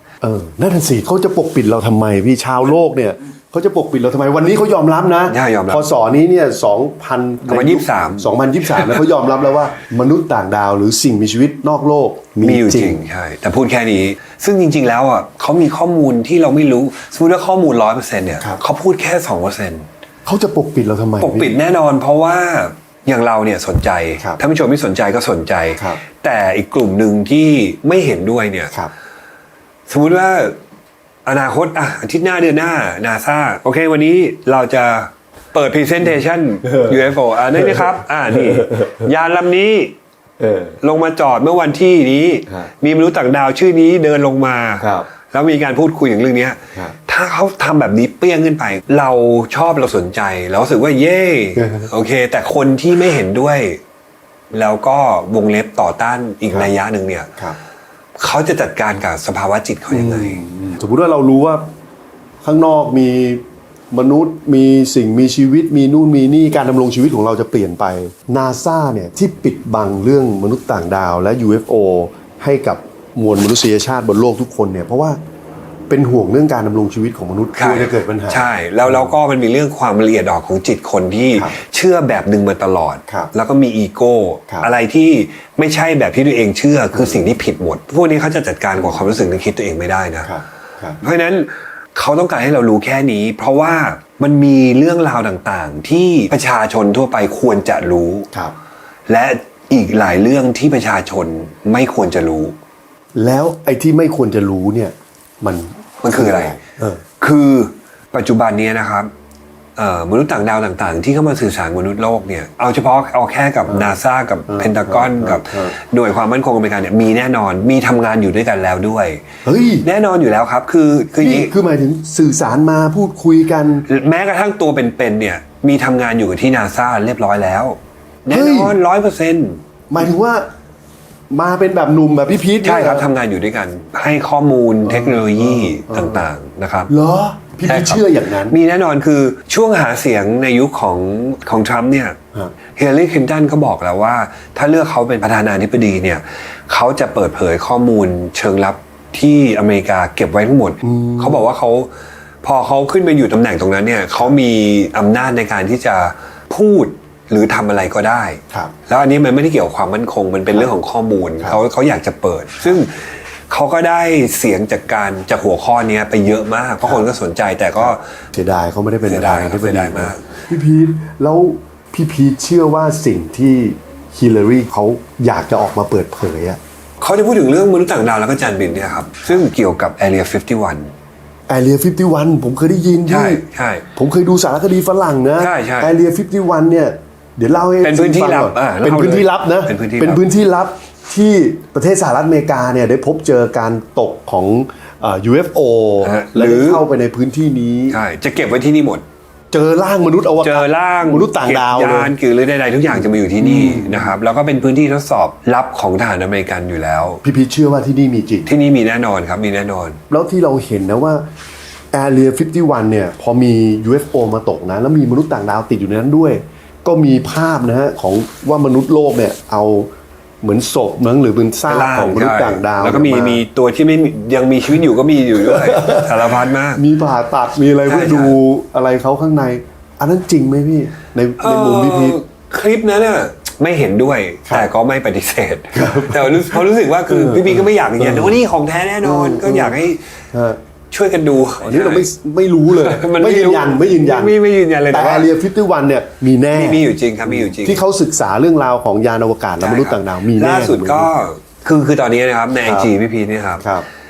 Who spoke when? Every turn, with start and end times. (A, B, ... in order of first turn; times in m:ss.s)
0:00.2-0:13.0 A
0:05.3-0:05.8 B
0:07.5-0:09.0 B
0:12.4-0:19.9 B
0:20.2-0:21.5 A
0:21.2-0:28.7 B
0:29.9-0:30.6 B
0:31.2-0:39.9 B
0:36.7-0:37.0 A
0:37.5-0:39.1 A
0:40.4-0:40.8 A
0:40.8-0:53.8 B
0:44.8-0:45.1 A
0:51.6-0:51.9 A
0:54.5-0:57.4 B
0:58.2-1:00.4 B
0:59.9-1:01.6 A
1:02.4-1:15.2 A
1:15.9-1:19.1 A
1:17.6-1:30.3 B
1:26.9-1:27.3 A
1:28.8-1:29.0 A
1:30.2-1:31.0 A
1:31.0-1:38.3 B
1:39.1-1:42.6 B
1:43.2-1:47.0 A
1:46.0-1:46.6 B
1:47.2-1:49.1 B
1:49.8-1:59.2 B
1:53.7-1:54.0 A
1:54.5-1:55.8 A
1:59.4-1:59.8 A
1:59.8-2:01.5 B
2:01.2-2:03.8 A
2:03.9-2:09.6 B
2:08.3-2:08.8 A
2:09.9-2:10.5 A
2:11.3-2:13.1 A
2:12.6-2:16.9 B
2:14.8-2:16.2 A
2:16.9-2:18.6 A
2:17.7-2:22.2 B
2:22.8-2:31.9 B
2:30.8-2:31.5 A
2:32.4-2:48.0 B
2:47.8-2:56.6 A
2:49.1-2:50.3 B
2:57.0-3:00.9 B
3:01.5-3:03.4 A
3:03.1-3:03.8 B
3:04.0-3:18.0 A
3:05.4-3:05.9 B
3:07.8-3:10.2 B
3:16.0-3:16.8 B
3:17.9-3:19.0 B
3:19.5-3:22.1 A
3:20.4-3:27.2 B
3:22.9-3:24.1 A
3:27.2-3:28.5 A
3:28.5-3:30.0 B
3:30.1-3:31.3 A
3:31.9-3:39.9 A
3:40.4-3:43.4 A
3:41.7-3:46.8 B
3:45.4-3:52.2 A
3:47.9-3:48.4 B
3:51.4-4:00.1 B
3:55.7-3:58.4 A
3:59.0-3:59.8 A
4:00.3-4:00.6 A
4:00.9-4:02.0 B
4:01.6-4:04.4 A
4:02.7-4:05.3 B
4:04.9-4:11.1 A
4:06.5-4:07.8 B
4:09.6-4:13.7 B
4:12.6-4:12.9 A
4:13.6-4:13.8 A